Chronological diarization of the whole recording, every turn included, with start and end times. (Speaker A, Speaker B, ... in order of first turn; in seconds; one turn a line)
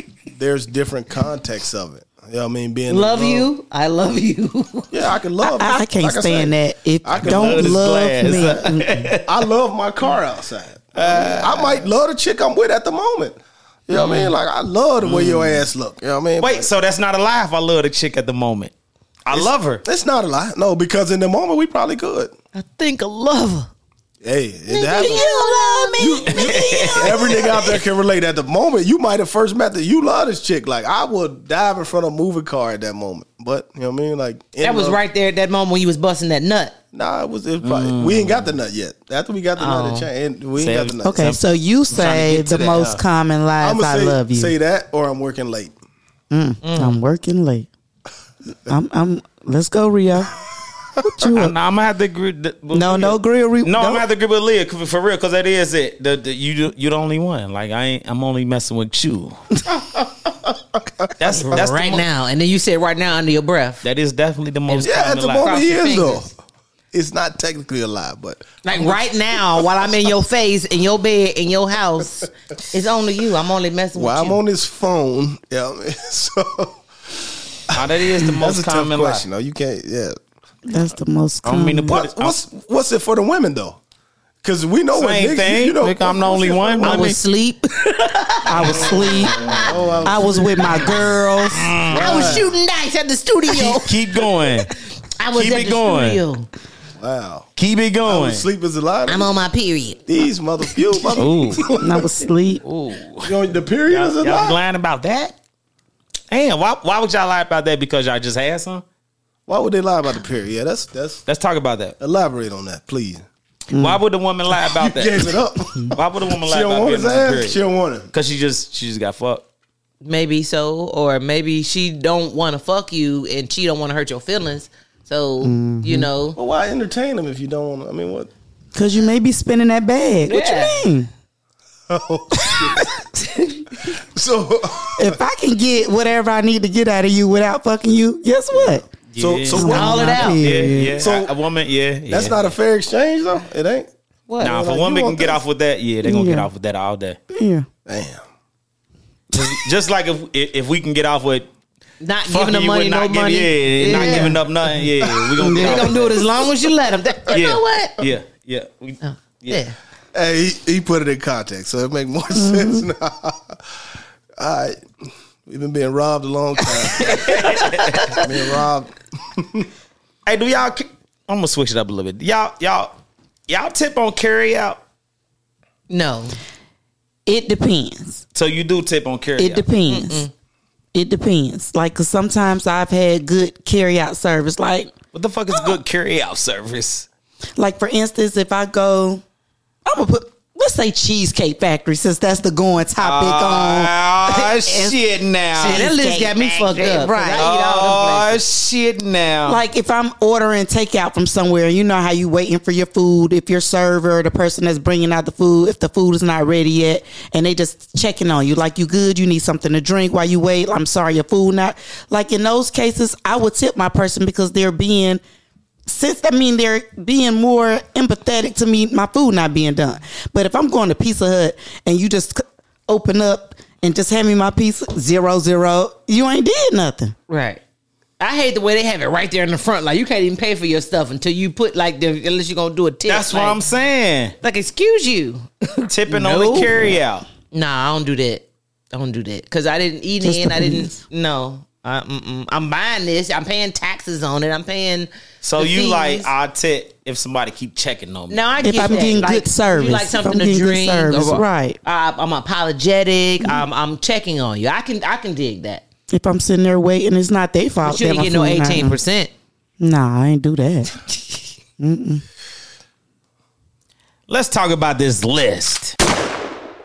Speaker A: 0.3-3.5
Speaker B: 2.9-4.9
Speaker A: 4.9-8.4
Speaker C: 5.4-9.1
Speaker D: 7.2-9.3
Speaker A: 9.2-13.4
Speaker D: 10.9-11.9
Speaker A: 13.9-16.7
Speaker D: 14.0-14.3
Speaker D: 15.0-15.6
Speaker D: 16.4-18.7
Speaker D: 19.3-19.8
Speaker A: 19.3-22.3
Speaker B: 22.5-23.7
Speaker A: 24.2-25.3
Speaker B: 24.7-27.8
Speaker C: 24.9-26.2
Speaker A: 26.0-35.0
Speaker D: 26.3-27.5
Speaker B: 34.6-36.8
Speaker A: 36.9-41.4
Speaker D: 37.6-38.5
Speaker B: 39.6-40.1
Speaker D: 40.6-43.0
Speaker C: 41.0-44.5
Speaker A: 43.6-45.7
Speaker C: 46.3-47.7
Speaker B: 46.6-47.0
Speaker C: 48.7-50.4
Speaker C: 51.0-51.5
Speaker D: 51.3-59.4
Speaker C: 52.7-54.0
Speaker D: 61.2-62.0
Speaker B: 61.4-63.8
Speaker D: 63.8-65.5
Speaker A: 64.7-66.3
Speaker B: 65.4-66.3
Speaker A: 66.9-68.6
Speaker B: 68.6-74.4
Speaker A: 74.0-76.8
Speaker A: 77.7-80.2
Speaker D: 77.7-79.2
Speaker C: 80.7-82.0
Speaker D: 81.5-82.4
Speaker A: 81.9-83.8
Speaker A: 84.4-87.1
Speaker D: 84.9-87.2
Speaker B: 86.8-89.8
Speaker C: 88.5-91.8
Speaker A: 89.6-90.6
Speaker D: 91.5-92.4
Speaker A: 91.9-92.5
Speaker B: 91.9-94.2
Speaker D: 93.5-94.7
Speaker B: 95.2-96.5
Speaker D: 95.3-96.2
Speaker A: 97.0-97.5
Speaker D: 97.6-98.5
Speaker A: 98.1-99.3
Speaker B: 99.1-100.0
Speaker A: 100.1-102.1
Speaker D: 101.2-101.7
Speaker C: 101.8-102.6
Speaker D: 102.6-103.4
Speaker A: 103.2-104.6
Speaker D: 103.9-105.4
Speaker D: 106.3-108.8
Speaker A: 109.5-111.2
Speaker D: 111.3-112.0
Speaker A: 112.0-113.3
Speaker D: 113.7-115.3
Speaker C: 113.7-114.0
Speaker A: 114.5-118.1
Speaker D: 115.9-117.6
Speaker D: 118.1-119.5
Speaker B: 120.0-126.4
Speaker C: 125.4-126.1
Speaker A: 126.4-128.3
Speaker C: 128.8-131.1
Speaker B: 130.3-130.9
Speaker A: 131.9-133.1
Speaker C: 132.4-132.8
Speaker B: 133.2-133.8
Speaker A: 133.9-135.2
Speaker C: 135.0-138.9
Speaker A: 138.5-140.3
Speaker D: 139.1-142.4
Speaker C: 139.5-141.0
Speaker B: 139.6-140.5
Speaker A: 140.8-141.3
Speaker A: 142.1-143.9
Speaker B: 144.3-144.8
Speaker D: 144.4-147.2
Speaker A: 144.6-145.4
Speaker C: 146.0-146.5
Speaker C: 147.3-147.7
Speaker A: 147.9-148.2
Speaker D: 149.3-151.5
Speaker B: 152.0-154.4
Speaker D: 152.2-156.2
Speaker C: 153.9-154.3
Speaker C: 155.4-155.9
Speaker B: 155.5-158.0
Speaker D: 157.3-159.6
Speaker B: 159.0-159.8
Speaker A: 160.1-163.7
Speaker C: 162.4-162.8
Speaker A: 164.4-167.5
Speaker D: 167.0-168.1
Speaker B: 167.2-168.3
Speaker A: 168.1-169.7
Speaker D: 170.3-172.9
Speaker D: 173.5-174.8
Speaker B: 175.9-176.4
Speaker C: 177.3-178.2
Speaker D: 178.3-179.7
Speaker C: 179.4-180.3
Speaker B: 179.9-180.3
Speaker C: 180.9-184.9
Speaker D: 185.1-187.1
Speaker C: 187.6-189.2
Speaker C: 189.9-195.0
Speaker D: 193.0-195.9
Speaker C: 195.5-197.5
Speaker B: 195.6-198.4
Speaker D: 197.3-199.6
Speaker C: 199.5-215.2
Speaker C: 215.9-227.1
Speaker B: 227.3-227.6
Speaker B: 228.2-233.6
Speaker D: 233.1-234.4
Speaker B: 234.4-237.0
Speaker D: 235.9-237.3
Speaker B: 237.5-246.3
Speaker C: 240.2-240.9
Speaker D: 245.4-249.1
Speaker B: 248.3-255.8
Speaker C: 248.6-251.8
Speaker C: 256.1-259.0
Speaker B: 257.8-259.3
Speaker C: 259.8-261.1
Speaker C: 261.8-262.2
Speaker D: 264.3-266.0